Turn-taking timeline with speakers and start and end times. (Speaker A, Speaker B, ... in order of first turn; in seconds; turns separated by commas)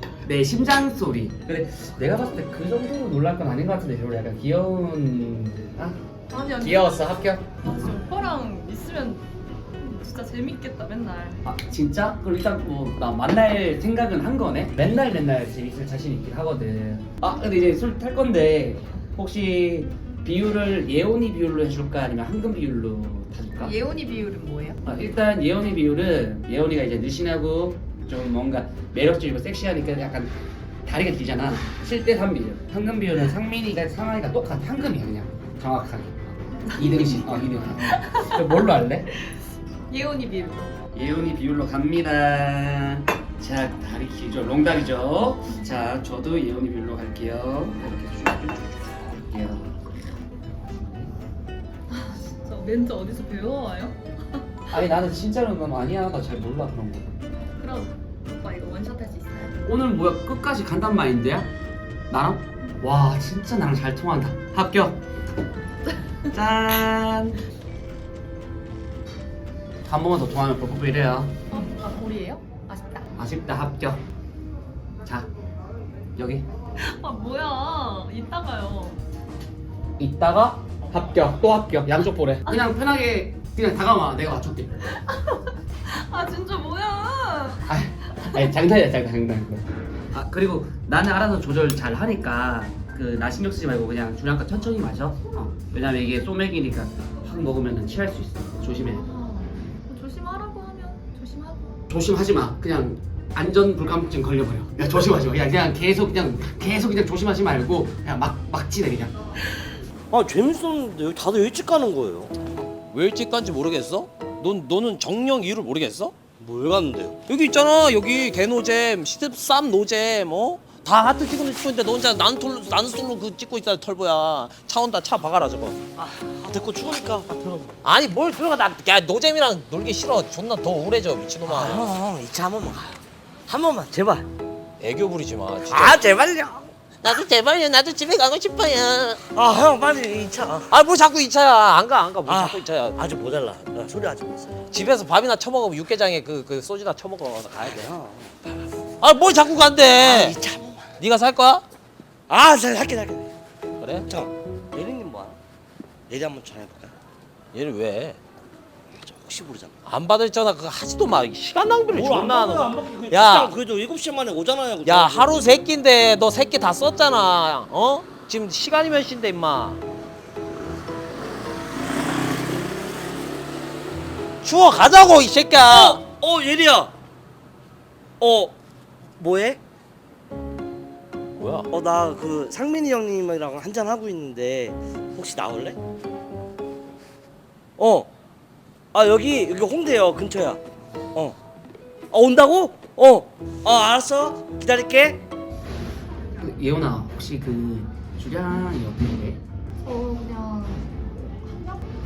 Speaker A: 0.2-6.0, Speaker B: 6.3-11.4, Speaker A: 6.6-7.6, Speaker A: 11.4-23.8, Speaker B: 23.6-24.8, Speaker A: 24.8-30.3, Speaker A: 30.9-39.1, Speaker B: 36.7-38.5, Speaker B: 39.9-40.7, Speaker A: 40.9-49.8, Speaker A: 50.7-51.1, Speaker B: 51.9-54.0, Speaker A: 54.7-57.2, Speaker B: 57.6-59.6, Speaker A: 59.6-61.5, Speaker A: 62.1-65.0, Speaker A: 66.3-67.4, Speaker A: 69.8-71.4, Speaker B: 71.5-73.1, Speaker A: 73.2-74.0, Speaker A: 75.0-75.3, Speaker A: 76.2-76.5, Speaker B: 76.8-79.0, Speaker A: 80.0-85.0, Speaker B: 85.0-87.7, Speaker A: 87.7-99.1, Speaker B: 98.7-101.8, Speaker A: 101.9-109.2, Speaker C: 110.1-112.3, Speaker D: 112.9-116.1, Speaker C: 116.4-117.2, Speaker D: 117.3-125.8, Speaker C: 126.0-127.7, Speaker D: 127.8-131.9, Speaker C: 131.4-134.3, Speaker D: 134.8-136.1, Speaker C: 135.7-136.7, Speaker D: 137.0-139.2, Speaker C: 139.3-140.7, Speaker D: 140.7-143.0, Speaker C: 142.3-144.7, Speaker D: 144.7-147.7, Speaker C: 147.5-148.4, Speaker D: 149.0-150.4, Speaker C: 150.0-150.9, Speaker D: 151.0-151.6, Speaker C: 152.3-153.3, Speaker D: 153.8-154.1, Speaker C: 154.1-155.4, Speaker C: 156.1-157.0, Speaker D: 157.5-158.2, Speaker C: 158.9-159.8, Speaker D: 159.9-163.5, Speaker C: 161.9-165.4, Speaker D: 164.8-169.8, Speaker D: 174.4-176.0, Speaker C: 175.7-176.9, Speaker C: 178.2-178.5, Speaker C: 179.2-179.6, Speaker D: 181.4-181.7, Speaker C: 181.7-185.8, Speaker C: 187.8-188.1, Speaker C: 188.9-190.6, Speaker C: 192.1-195.2, Speaker A: 196.4-199.4, Speaker B: 199.8-201.8